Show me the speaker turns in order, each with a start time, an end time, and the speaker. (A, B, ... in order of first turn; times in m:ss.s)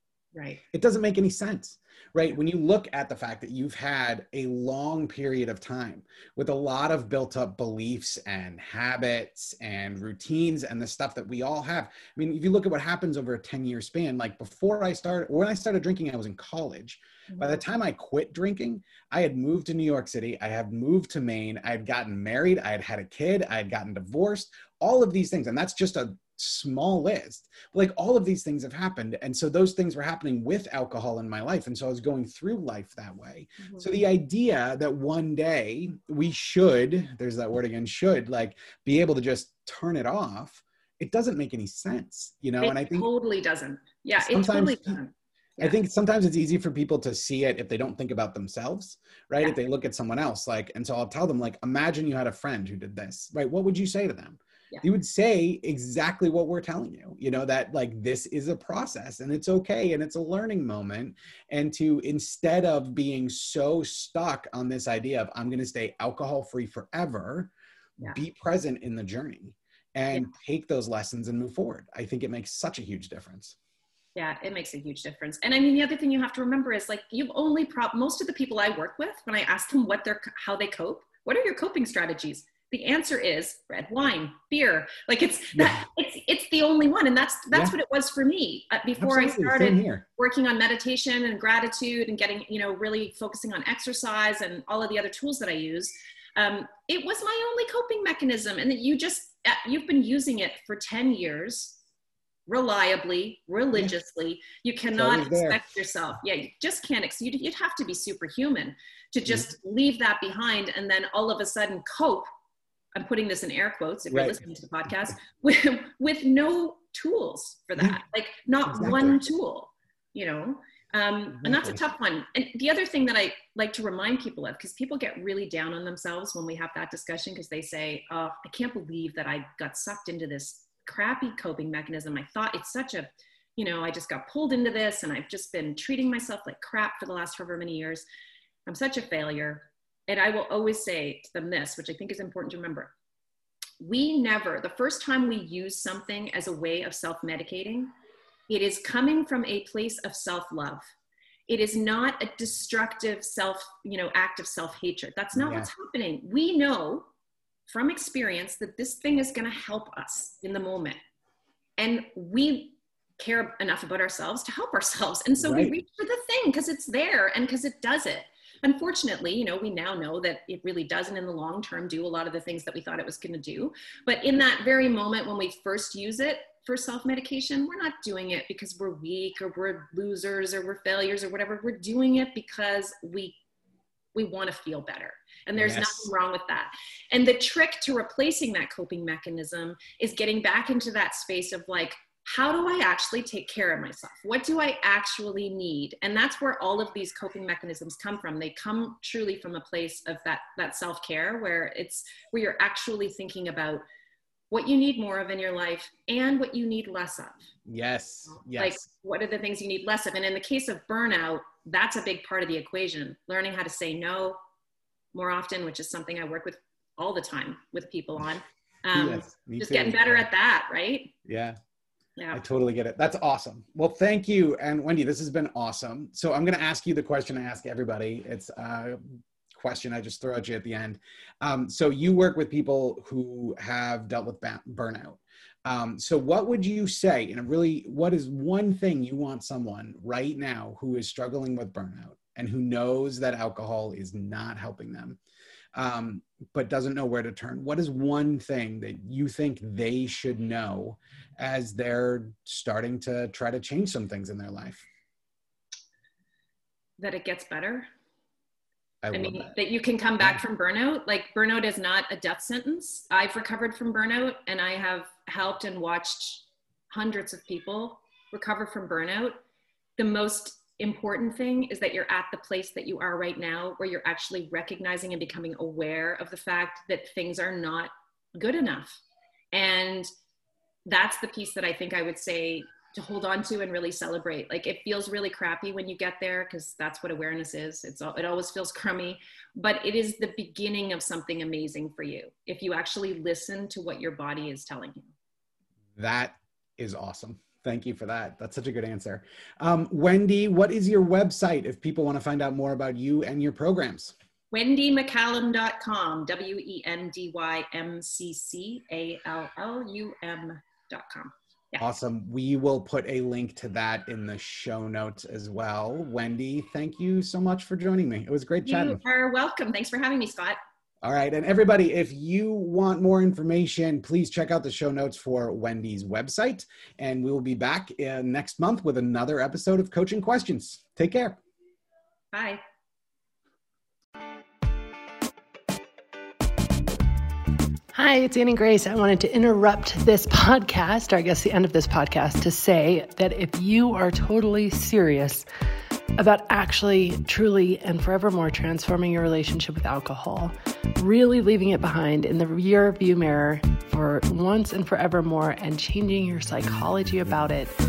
0:00.3-0:00.6 A
0:00.7-0:43.1 B
0:17.3-0:17.6 A
0:33.6-0:33.9 A
0:42.6-0:45.7 A
0:44.2-0:45.0 B
0:45.6-1:07.5 B
1:08.0-1:13.6 B
1:14.2-1:41.8 A
1:25.5-1:25.8 B
1:29.0-1:30.0 B
1:42.5-1:52.3 A
1:44.9-1:45.6 B
1:52.9-2:18.0 A
1:54.1-1:54.4 B
1:58.7-1:59.2 B
2:01.4-2:01.8 B
2:18.6-2:22.9 A
2:23.8-2:27.9 A
2:28.5-2:30.8 A
2:31.5-2:37.0 A
2:35.3-2:35.7 B
2:37.7-2:41.0 A
2:41.8-3:03.4 A
2:45.4-2:45.7 B
3:04.1-3:23.8 A
3:05.5-3:06.1 B
3:24.5-3:27.4 A
3:27.6-3:28.8 B
3:28.5-3:34.4 A
3:35.1-3:41.1 A
3:38.9-3:40.2 B
3:41.2-3:41.6 B
3:42.3-4:05.2 B
4:05.7-4:14.8 B
4:17.0-4:17.9 A
4:19.0-4:19.5 B
4:19.1-4:29.4 A
4:30.0-4:39.0 A
4:39.5-4:40.1 A
4:40.8-4:55.1 A
4:56.0-5:04.1 B
5:04.5-5:11.8 A
5:11.8-5:19.0 B
5:18.6-5:20.6 A
5:21.0-5:31.4 B
5:32.3-5:32.6 A
5:37.9-5:45.4 C
5:46.2-5:57.7 C